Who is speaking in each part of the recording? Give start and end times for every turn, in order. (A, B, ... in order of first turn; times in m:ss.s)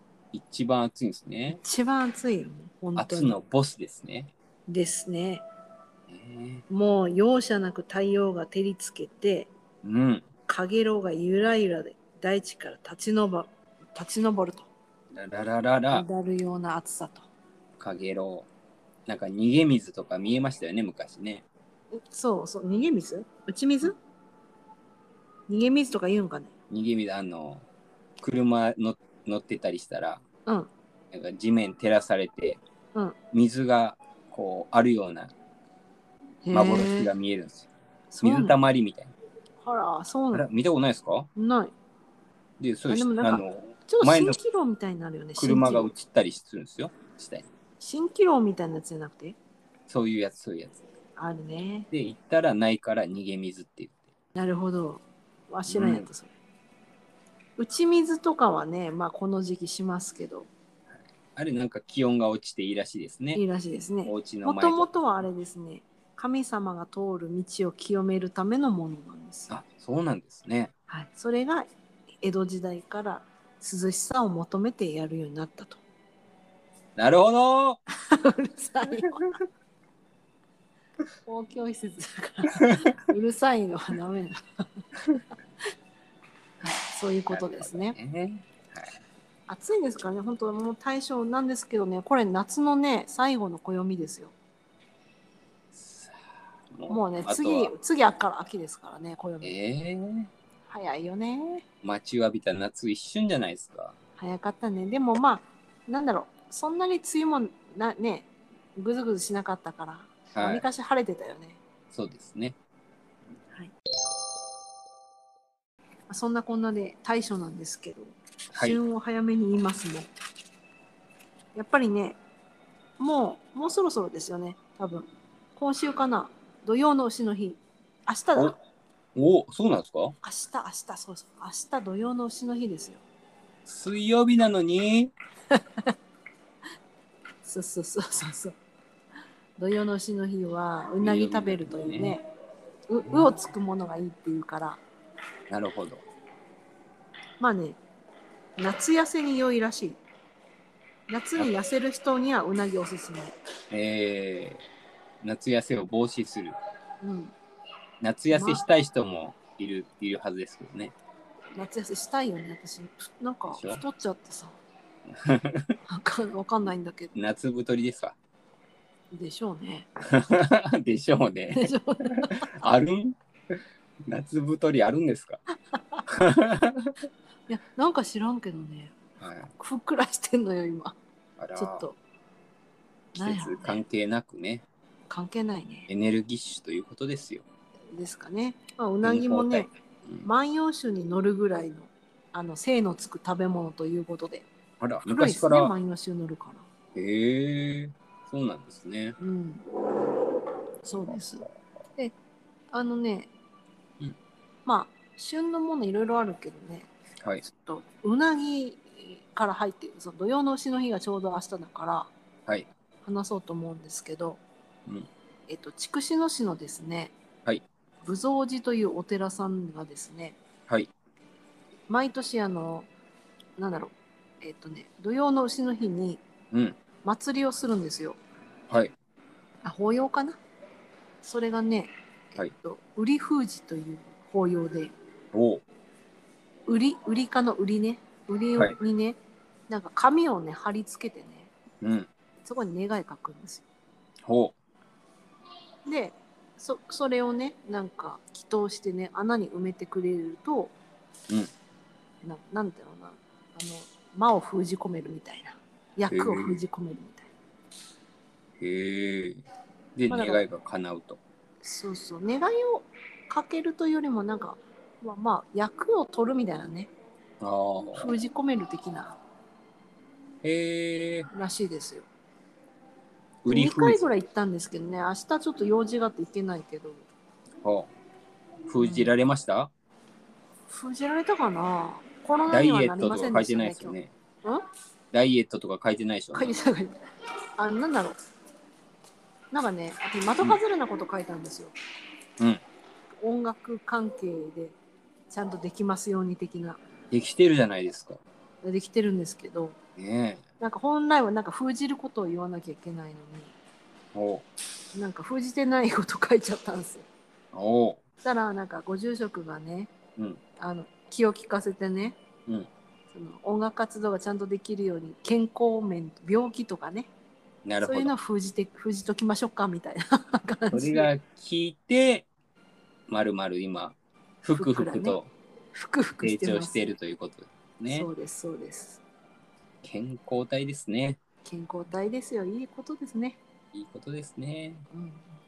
0:00.3-0:01.6 A
0:01.5-0:03.3 B
0:03.0-0:04.3 A
0:04.7-0:05.4 B
0:06.1-0:06.6 A
0:06.7-0:09.5 B
0:09.8-0:10.2 A
0:10.5-0:14.7 B
0:15.1-0:16.0 A
0:15.9-0:17.3 B
0:17.8-0:18.5 A
0:19.1-0:21.4 A
0:21.9-0:23.9 B
0:25.5-0:26.5 B
0:26.7-0:27.6 A
0:28.2-0:30.2 A
0:31.1-0:32.6 A
0:33.3-0:35.3 A
0:36.4-0:37.1 B
0:36.5-0:37.7 A
0:38.1-0:38.6 B
0:38.2-0:39.1 A
0:39.6-0:40.5 B
0:40.3-0:41.3 A
0:41.3-0:41.7 B
0:42.6-0:44.4 A
0:42.9-0:45.9 B
0:45.4-0:47.5 A
0:47.8-0:49.4 B
0:49.9-0:50.8 A
0:51.2-0:51.9 B
0:51.9-0:54.0 A
0:54.3-0:56.3 B
0:55.7-0:56.1 A
0:57.6-1:00.5 B
1:01.3-1:03.4 A
1:03.3-1:09.6 B
1:04.0-1:04.9 A
1:09.5-1:10.7 A
1:10.9-1:11.7 B
1:12.2-1:15.8 B
1:17.0-1:17.8 A
1:18.0-1:19.4 B
1:21.2-1:24.4 B
1:26.6-1:28.0 B
1:27.3-1:28.9 A
1:29.5-1:34.3 B
1:35.7-1:37.7 A
1:36.9-1:39.5 B
1:39.4-1:40.3 A
1:40.7-1:41.6 B
1:41.8-1:43.9 A
1:44.2-1:51.6 B
1:50.3-1:50.7 A
1:51.9-1:52.6 A
1:56.1-2:00.1 B
1:58.5-1:58.8 A
2:01.5-2:02.2 B
2:03.0-2:08.6 B
2:09.1-2:10.1 A
2:10.2-2:13.0 B
2:13.6-2:15.1 A
2:15.5-2:15.9 B
2:17.4-2:18.6 B
2:19.6-2:22.2 B
2:21.0-2:22.2 A
2:22.9-2:24.8 B
2:25.5-2:26.0 A
2:27.4-2:27.8 B
2:28.6-2:30.0 B
2:31.1-2:33.3 B
2:33.7-2:34.7 A
2:35.2-2:36.6 A
2:37.0-2:37.3 B
2:38.0-2:40.9 A
2:38.3-2:38.6 B
2:41.5-2:44.6 B
2:43.5-2:43.8 A
2:45.1-2:45.7 A
2:45.9-2:47.1 B
2:47.1-2:48.2 A
2:49.1-2:49.9 B
2:50.0-2:53.2 A
2:51.5-2:52.5 B
2:54.1-2:55.4 A
2:55.8-2:56.0 B
2:56.1-2:56.9 A
2:57.5-2:59.0 B
2:59.2-2:59.5 A
2:59.6-3:01.0 B
3:01.4-3:01.9 A
3:01.6-3:02.0 B
3:03.1-3:03.8 B
3:03.2-3:04.6 A
3:05.1-3:05.9 B
3:05.9-3:07.4 A
3:07.9-3:09.7 B
3:09.0-3:10.3 A
3:10.2-3:14.4 B
3:14.8-3:15.7 A
3:15.0-3:16.6 B
3:16.9-3:19.2 A
3:19.2-3:19.7 B
3:20.8-3:22.1 B
3:21.1-3:21.5 A
3:22.7-3:23.3 B
3:24.6-3:26.9 B
3:27.4-3:32.1 B
3:33.0-3:34.4 B
3:35.5-3:37.1 B
3:38.0-3:40.4 B
3:41.9-3:42.9 B
3:43.6-3:46.2 B
3:46.5-3:46.8 A
3:47.0-3:48.2 B
3:49.6-3:50.4 B
3:51.2-3:54.9 B
3:55.3-3:55.6 A
3:56.7-4:01.5 B
4:01.8-4:02.1 A
4:02.4-4:03.6 B
4:04.2-4:04.5 A
4:05.8-4:10.7 B
4:12.2-4:17.3 B
4:16.1-4:16.6 A
4:18.6-4:19.4 A
4:20.0-4:21.2 A
4:20.1-4:20.4 B
4:21.6-4:26.9 B
4:27.4-4:28.2 A
4:27.9-4:29.2 B
4:30.4-4:31.3 A
4:31.3-4:32.1 B
4:33.4-4:34.0 A
4:33.5-4:37.0 B
4:37.6-4:37.9 A
4:38.6-4:39.7 A
4:38.8-4:39.1 B
4:40.7-4:44.6 B
4:42.5-4:44.1 A
4:45.1-4:46.6 A
4:46.3-4:47.0 B
4:47.6-4:48.2 B
4:49.5-4:51.7 B
4:53.2-4:54.8 B
4:55.3-4:56.8 B
4:57.1-4:58.2 A
4:58.6-4:59.8 B
5:00.0-5:00.4 A
5:00.6-5:03.5 B
5:04.1-5:04.4 A
5:04.9-5:07.0 B
5:07.5-5:08.0 A
5:08.2-5:09.9 B
5:10.6-5:12.2 B
5:13.1-5:17.1 B
5:17.6-5:18.2 A
5:17.8-5:21.1 B
5:20.7-5:22.3 A
5:23.1-5:25.3 A
5:24.5-5:25.2 B
5:25.7-5:26.8 B
5:26.2-5:28.1 A
5:27.9-5:29.0 B
5:29.8-5:31.2 A
5:31.4-5:33.4 B
5:33.7-5:34.8 A
5:34.9-5:35.2 B